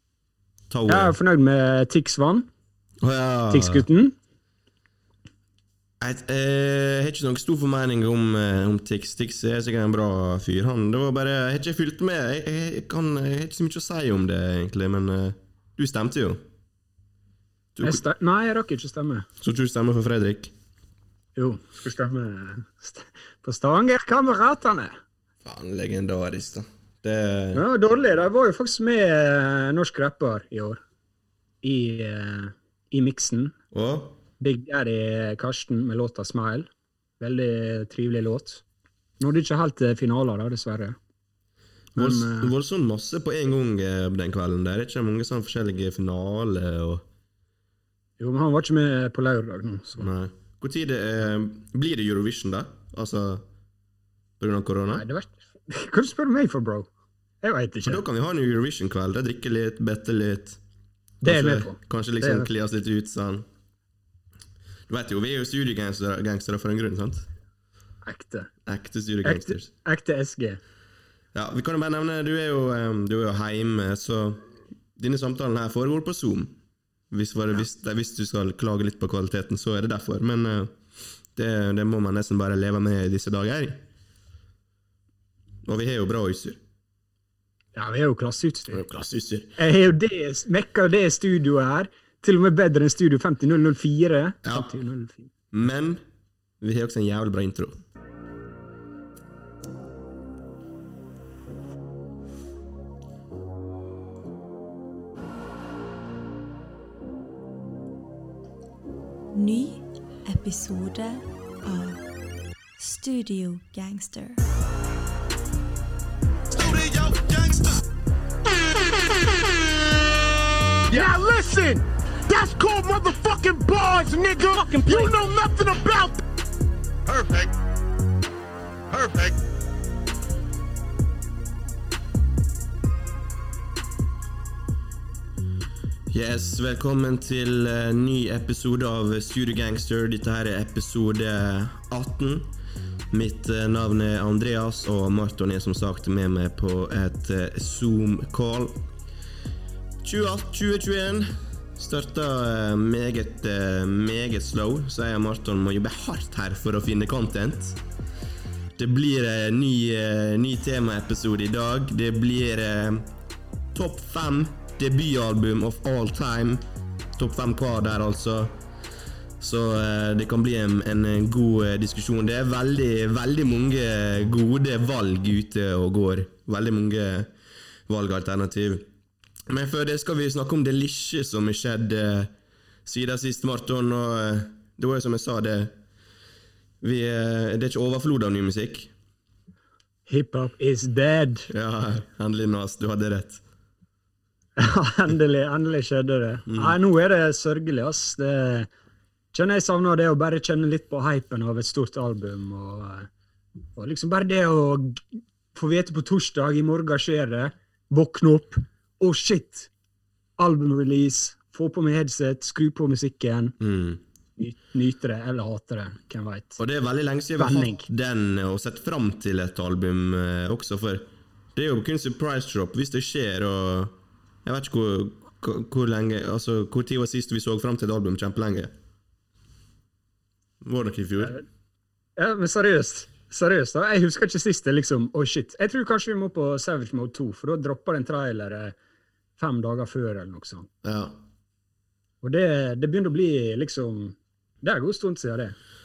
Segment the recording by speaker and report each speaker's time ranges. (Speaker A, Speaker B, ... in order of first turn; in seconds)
Speaker A: 0.7-1.1, 3.0-3.9, 6.0-16.4, 17.8-18.0, 19.4-20.5, 25.4-27.6, 33.7-34.2, 42.0-47.0, 50.0-53.5, 54.4-55.0, 57.8-60.6, 61.2-63.5, 64.9-67.3, 68.7-69.7, 71.3-76.5, 77.1-80.8, 81.3-83.8, 85.6-86.6, 88.7-89.6, 94.4-94.7, 95.5-96.0, 96.6-97.8, 136.1-142.5, 143.1-148.8, 150.0-157.8, 158.8-163.1, 163.7-166.6, 167.2-168.6, 169.4-177.3, 177.9-178.9, 179.5-182.3, 182.8-185.7, 186.8-188.9, 191.5-193.4, 196.5-196.8, 213.6-214.0, 216.6-228.7, 230.6-231.4, 240.8-241.2
Speaker B: 0.9-2.5, 3.5-4.1, 17.8-19.3, 21.4-25.0, 27.5-30.8, 31.6-33.5, 34.4-36.7, 37.2-38.6, 39.2-41.0, 42.0-42.5, 48.2-50.1, 54.9-56.9, 57.4-58.0, 61.2-62.5, 68.0-68.5, 69.2-70.6, 87.8-88.8, 89.6-95.3, 190.1-191.5, 194.6-198.7, 199.3-203.1, 203.8-209.7, 210.4-213.6, 214.4-216.6, 217.4-217.9, 232.2-238.8, 239.4-240.7, 242.2-245.6
Speaker C: 109.3-112.1, 112.8-114.4
Speaker D: 116.6-117.7, 127.1-127.5, 128.9-129.3
Speaker E: 120.9-126.2